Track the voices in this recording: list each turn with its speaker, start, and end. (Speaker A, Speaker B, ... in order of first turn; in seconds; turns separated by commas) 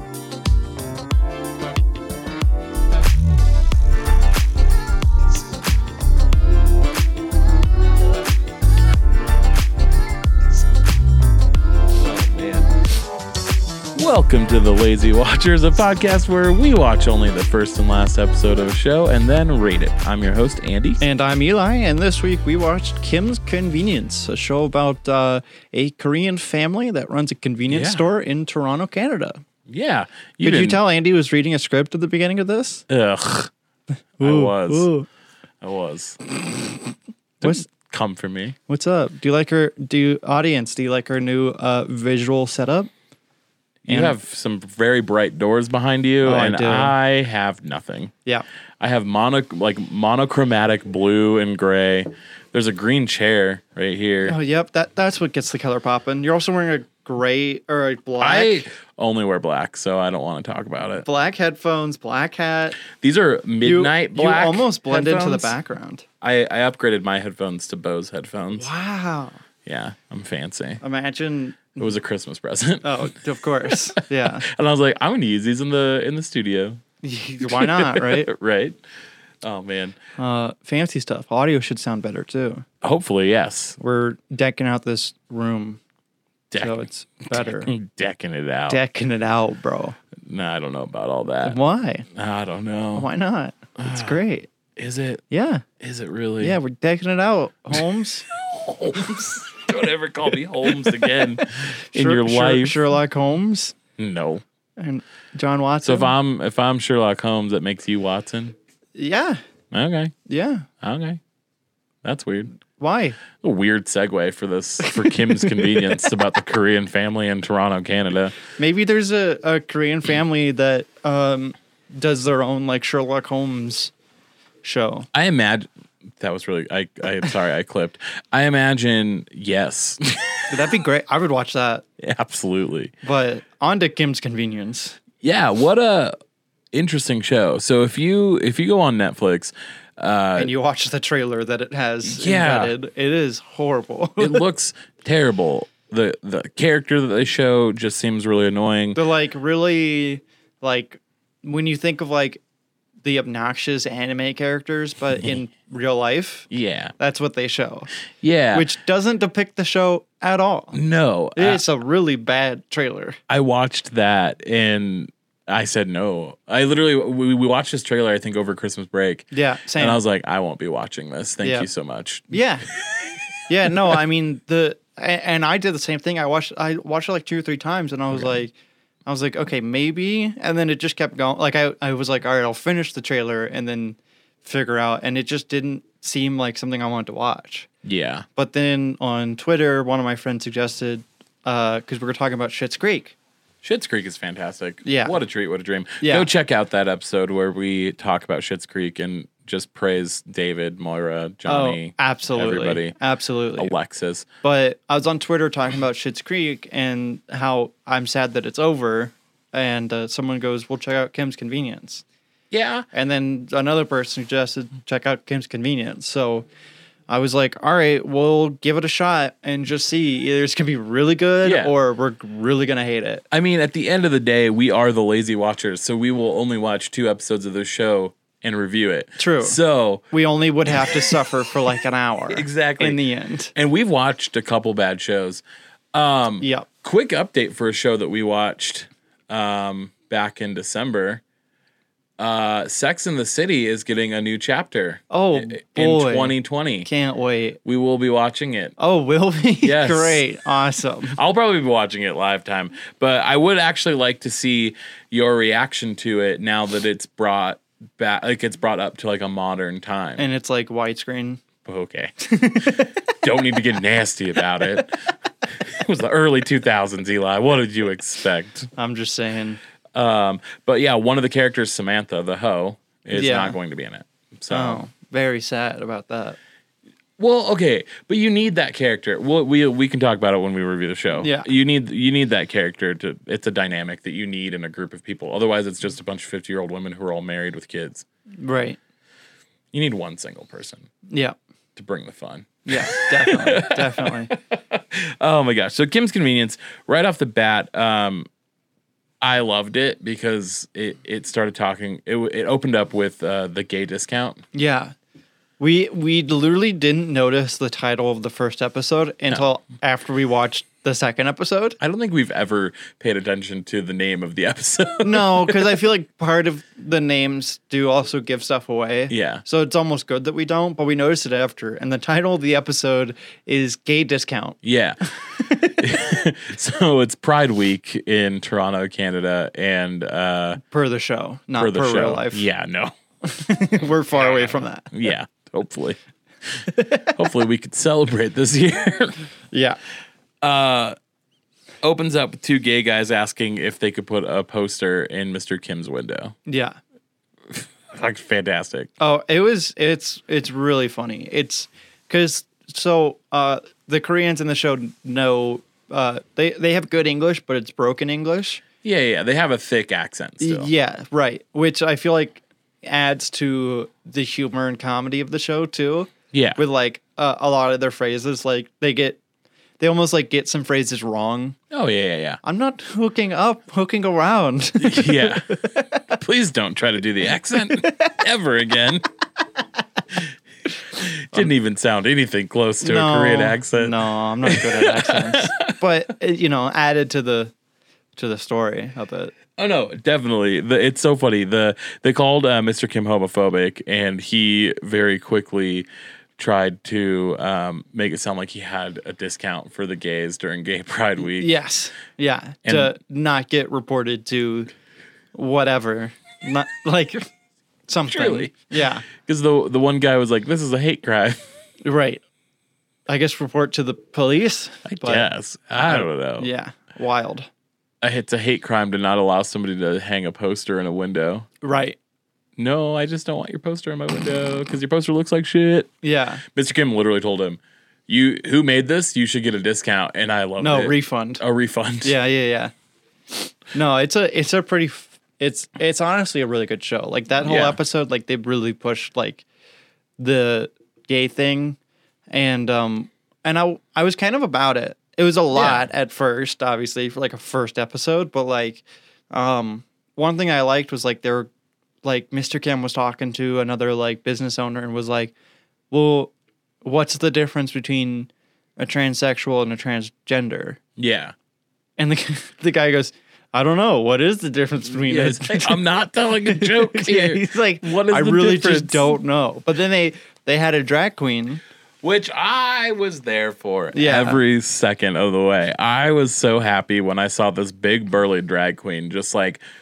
Speaker A: 11.9-12.7, Speaker A: 13.9-21.0, Speaker B: 21.0-29.4, Speaker A: 27.7-28.1, Speaker A: 29.7-30.8, Speaker B: 30.4-32.8, Speaker A: 32.9-33.5, Speaker B: 34.2-35.1, Speaker A: 34.2-34.9, Speaker A: 35.6-36.2, Speaker B: 37.4-37.7, Speaker A: 37.4-38.5, Speaker B: 38.7-42.9, Speaker A: 43.8-48.1, Speaker B: 43.9-44.1, Speaker B: 46.2-47.0, Speaker A: 48.8-54.4, Speaker B: 54.2-58.7, Speaker A: 58.2-61.0, Speaker B: 61.0-62.8, Speaker A: 62.8-65.5, Speaker B: 63.6-66.0, Speaker A: 66.2-68.7, Speaker B: 68.5-69.4, Speaker A: 69.7-70.8, Speaker B: 70.8-71.9, Speaker A: 71.8-73.1, Speaker B: 72.8-74.5, Speaker A: 73.7-76.8, Speaker B: 77.0-78.3, Speaker A: 77.4-78.8, Speaker A: 79.4-80.0, Speaker B: 80.2-82.6, Speaker A: 82.8-83.8, Speaker B: 83.8-85.8, Speaker A: 86.5-88.8, Speaker B: 86.6-87.7, Speaker B: 88.7-90.0, Speaker A: 90.2-91.6, Speaker B: 91.4-92.0, Speaker A: 92.1-93.1, Speaker B: 93.0-94.5, Speaker A: 93.8-94.2, Speaker A: 94.8-95.2, Speaker B: 95.3-95.6, Speaker A: 95.8-96.6, Speaker B: 96.4-98.2, Speaker A: 97.7-102.8, Speaker B: 101.9-103.8, Speaker A: 104.0-104.4, Speaker B: 104.8-106.1, Speaker A: 105.8-108.5, Speaker B: 109.0-109.4, Speaker A: 109.7-110.1, Speaker B: 110.3-110.7, Speaker A: 110.8-111.2, Speaker A: 112.0-112.5, Speaker B: 112.8-113.2, Speaker A: 113.3-118.3, Speaker B: 114.8-116.1, Speaker B: 118.6-123.9, Speaker B: 124.6-125.1, Speaker A: 125.1-130.6, Speaker B: 130.5-131.8, Speaker A: 132.0-132.9, Speaker B: 133.0-135.0, Speaker A: 135.2-136.1, Speaker A: 136.7-140.5, Speaker B: 140.3-144.4, Speaker A: 142.0-142.7, Speaker A: 144.2-149.0, Speaker B: 148.9-152.4, Speaker B: 153.0-157.9, Speaker A: 156.5-156.9, Speaker A: 158.2-158.7, Speaker B: 158.5-160.8, Speaker A: 160.7-161.6, Speaker B: 161.3-163.2, Speaker A: 163.3-173.2, Speaker B: 169.3-170.0, Speaker B: 171.4-171.7, Speaker B: 172.3-172.7, Speaker B: 173.5-178.5, Speaker B: 179.1-187.7, Speaker A: 187.8-188.2, Speaker B: 188.3-193.1, Speaker A: 193.6-202.9, Speaker B: 194.8-195.2, Speaker B: 196.0-196.3, Speaker B: 201.5-203.7, Speaker A: 203.6-204.3, Speaker B: 204.4-212.0, Speaker A: 212.5-212.8, Speaker B: 212.9-216.5, Speaker B: 217.1-223.2, Speaker A: 221.4-221.7, Speaker A: 223.3-230.0, Speaker B: 229.2-229.6, Speaker B: 230.1-233.5, Speaker A: 232.3-233.0, Speaker A: 233.5-235.4, Speaker A: 235.9-241.2, Speaker B: 236.4-236.7, Speaker A: 242.2-246.9, Speaker B: 245.1-247.6, Speaker A: 247.6-248.7, Speaker B: 248.8-251.2, Speaker A: 249.6-250.2, Speaker A: 251.0-260.2, Speaker B: 260.2-261.4, Speaker A: 261.6-268.7, Speaker B: 262.2-262.9, Speaker B: 268.8-269.6, Speaker A: 269.9-274.8, Speaker B: 273.1-273.6, Speaker B: 274.5-276.4, Speaker A: 277.2-288.0, Speaker B: 281.2-281.5, Speaker B: 288.4-288.8, Speaker A: 289.7-290.9, Speaker B: 291.1-291.4, Speaker A: 291.8-298.3, Speaker B: 292.7-294.3, Speaker A: 299.2-304.4, Speaker B: 304.5-304.9, Speaker B: 305.6-311.8, Speaker A: 311.8-315.8, Speaker B: 315.0-325.9, Speaker A: 319.1-319.4, Speaker A: 324.6-330.6, Speaker B: 330.6-332.4, Speaker A: 331.6-332.9, Speaker B: 333.2-334.9, Speaker A: 333.8-336.0, Speaker A: 336.6-339.2, Speaker B: 336.7-337.1, Speaker B: 339.5-339.8, Speaker A: 340.4-340.9, Speaker A: 341.8-346.4, Speaker B: 346.5-346.8, Speaker A: 347.5-348.9, Speaker B: 349.0-358.6, Speaker A: 358.8-360.7, Speaker B: 360.4-369.2, Speaker A: 366.3-366.6, Speaker B: 369.8-371.6, Speaker A: 371.7-372.4, Speaker B: 372.4-376.0, Speaker A: 374.8-375.5, Speaker A: 376.1-379.1, Speaker B: 377.8-378.1, Speaker A: 381.0-385.7, Speaker B: 382.8-387.5, Speaker B: 388.1-389.3, Speaker A: 389.6-395.9, Speaker A: 396.4-401.5, Speaker B: 401.4-404.7, Speaker A: 402.6-402.9, Speaker B: 405.3-407.3, Speaker B: 407.9-409.0, Speaker A: 408.1-408.6, Speaker A: 409.1-411.4, Speaker B: 411.8-412.2, Speaker B: 413.1-415.3, Speaker A: 414.9-416.5, Speaker B: 415.8-417.5, Speaker A: 418.0-421.5, Speaker B: 421.6-422.0, Speaker A: 422.6-425.9, Speaker B: 426.0-426.4, Speaker A: 426.5-432.1, Speaker B: 430.6-431.4, Speaker B: 432.0-432.7, Speaker B: 433.7-439.4, Speaker A: 437.4-437.8, Speaker B: 440.2-441.8, Speaker B: 442.3-451.5, Speaker A: 445.5-445.9, Speaker B: 452.0-455.3, Speaker B: 455.9-456.3, Speaker B: 456.8-460.8, Speaker A: 461.0-461.3, Speaker B: 462.0-465.8, Speaker A: 464.9-469.2, Speaker B: 466.4-471.6, Speaker A: 472.0-479.6, Speaker B: 473.9-474.4